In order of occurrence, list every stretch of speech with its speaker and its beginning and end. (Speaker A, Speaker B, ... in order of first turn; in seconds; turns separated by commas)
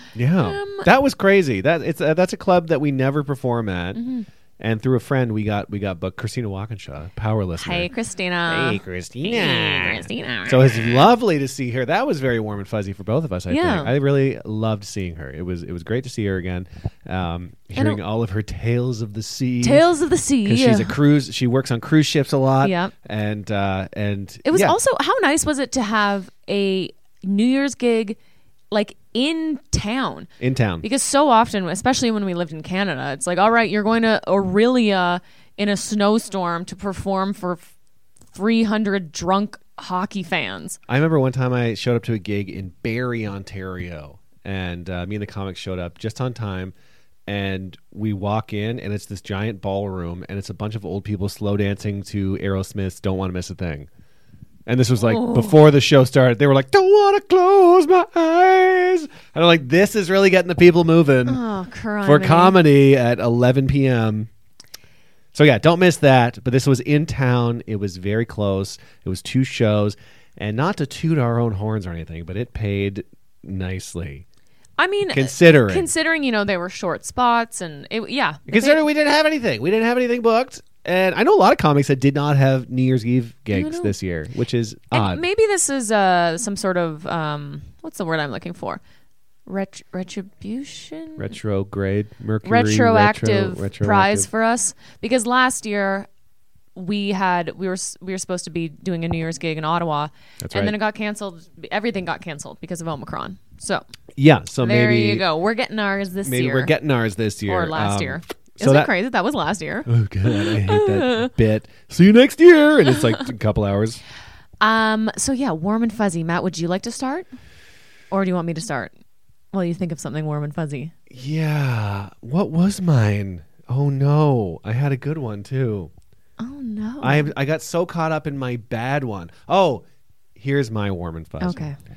Speaker A: 0.1-4.0, Speaker B: 0.4-0.9, Speaker B: 3.9-4.2, Speaker A: 4.6-7.9, Speaker B: 7.6-11.0, Speaker A: 8.5-19.8, Speaker B: 13.5-13.9, Speaker B: 19.6-21.0, Speaker A: 20.4-24.8, Speaker B: 22.6-22.9, Speaker B: 24.4-28.2, Speaker B: 28.7-30.3, Speaker A: 30.4-30.9, Speaker B: 30.8-37.6, Speaker B: 38.3-40.8, Speaker A: 40.9-46.7, Speaker A: 47.3-53.9, Speaker A: 54.7-61.4, Speaker B: 55.0-55.5, Speaker B: 61.2-62.6, Speaker A: 62.0-64.3, Speaker A: 65.3-74.2, Speaker B: 74.8-78.8, Speaker A: 75.1-75.9, Speaker A: 78.5-85.2, Speaker B: 83.5-83.9, Speaker B: 84.9-88.8, Speaker B: 89.5-91.3, Speaker A: 91.2-94.3, Speaker B: 92.4-96.1, Speaker B: 96.7-103.8, Speaker A: 100.4-100.8, Speaker A: 104.2-105.2, Speaker B: 104.6-106.7, Speaker A: 106.2-108.9, Speaker B: 107.5-111.3, Speaker A: 109.8-114.0, Speaker B: 114.6-117.3, Speaker B: 118.1-118.9, Speaker B: 119.5-120.9, Speaker A: 121.1-125.9, Speaker B: 126.4-127.3, Speaker A: 127.0-129.8, Speaker A: 130.3-131.6, Speaker B: 131.4-131.8